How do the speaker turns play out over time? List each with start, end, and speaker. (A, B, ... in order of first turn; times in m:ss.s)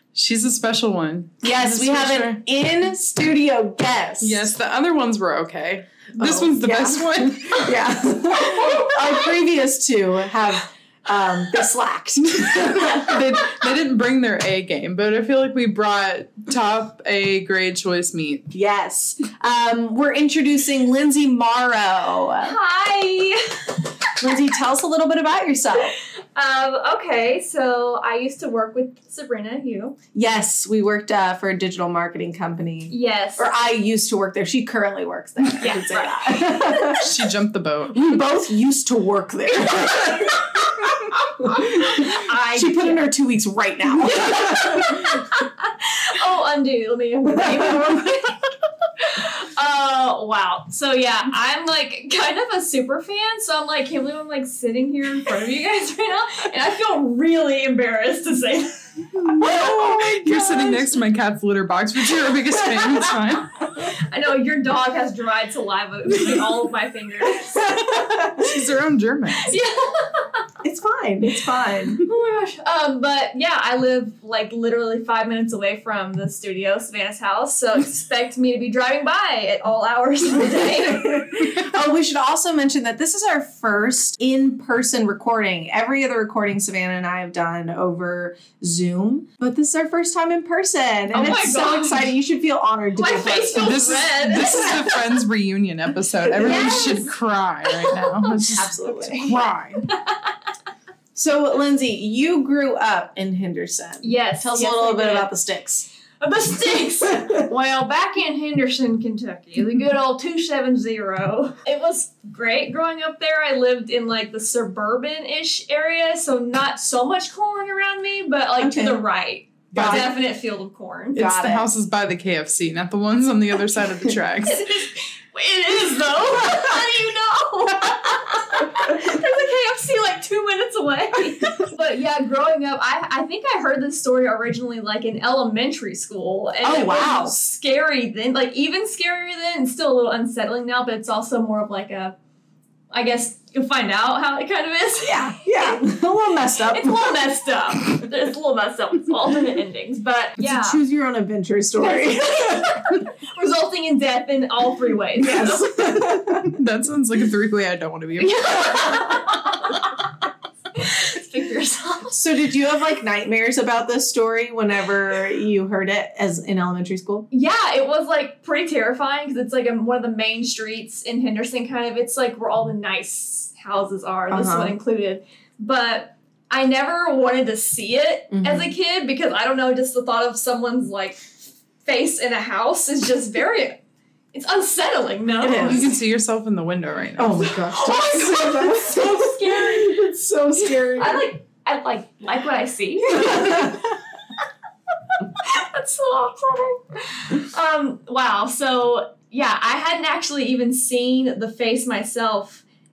0:00.1-0:02.4 A
0:01.4-0:04.5 B
0:04.2-0:07.8 A
0:06.2-0:13.4 B
0:08.6-0:08.9 C
0:12.3-0:18.5 A
0:18.5-0:22.6 B
0:22.4-0:23.9 C
0:24.2-0:26.0 B
0:26.4-0:30.0 C
0:30.1-0:37.1 B
0:32.9-0:33.5 C
0:35.6-0:37.0 C
0:37.0-0:38.2 A
0:37.9-0:45.2 B
0:41.5-0:43.0 C
0:44.0-0:48.4 C
0:47.4-0:48.0 B
0:49.0-0:59.7 C
0:59.3-1:00.9 B
0:59.3-1:03.6 A
1:03.8-1:07.8 C
1:07.5-1:08.5 B
1:08.1-1:09.6 A
1:09.4-1:10.5 C
1:10.6-1:12.0 B
1:12.0-1:21.6 C
1:20.7-1:34.8 B
1:31.1-1:32.1 C
1:33.0-1:35.0 C
1:33.6-1:39.9 A
1:36.3-1:37.0 B
1:36.4-1:37.1 C
1:37.7-1:40.3 C
1:38.6-1:39.4 B
1:41.2-1:45.9 B
1:44.0-1:45.3 C
1:46.2-2:01.2 C
1:58.6-1:59.0 B
1:59.7-2:00.1 B
1:59.7-2:00.1 A
2:01.2-2:01.7 B
2:01.2-2:04.7 A
2:04.4-2:22.2 C
2:16.6-2:17.4 B
2:22.9-2:26.0 C
2:25.0-2:27.2 B
2:26.7-2:30.8 C
2:30.4-2:32.9 B
2:31.8-2:35.7 C
2:35.2-2:36.5 B
2:36.4-2:38.7 A
2:38.2-2:39.8 C
2:38.7-2:39.2 B
2:40.8-2:42.2 C
2:42.1-2:47.3 B
2:47.3-3:01.3 C
2:54.3-2:54.8 B
2:58.3-2:58.7 B
3:01.8-3:03.8 C
3:04.3-3:05.9 C
3:05.4-3:05.9 B
3:05.6-3:07.5 A
3:07.2-3:11.3 B
3:07.5-3:10.0 C
3:11.0-3:13.9 C
3:13.1-3:13.8 B
3:15.4-3:22.6 C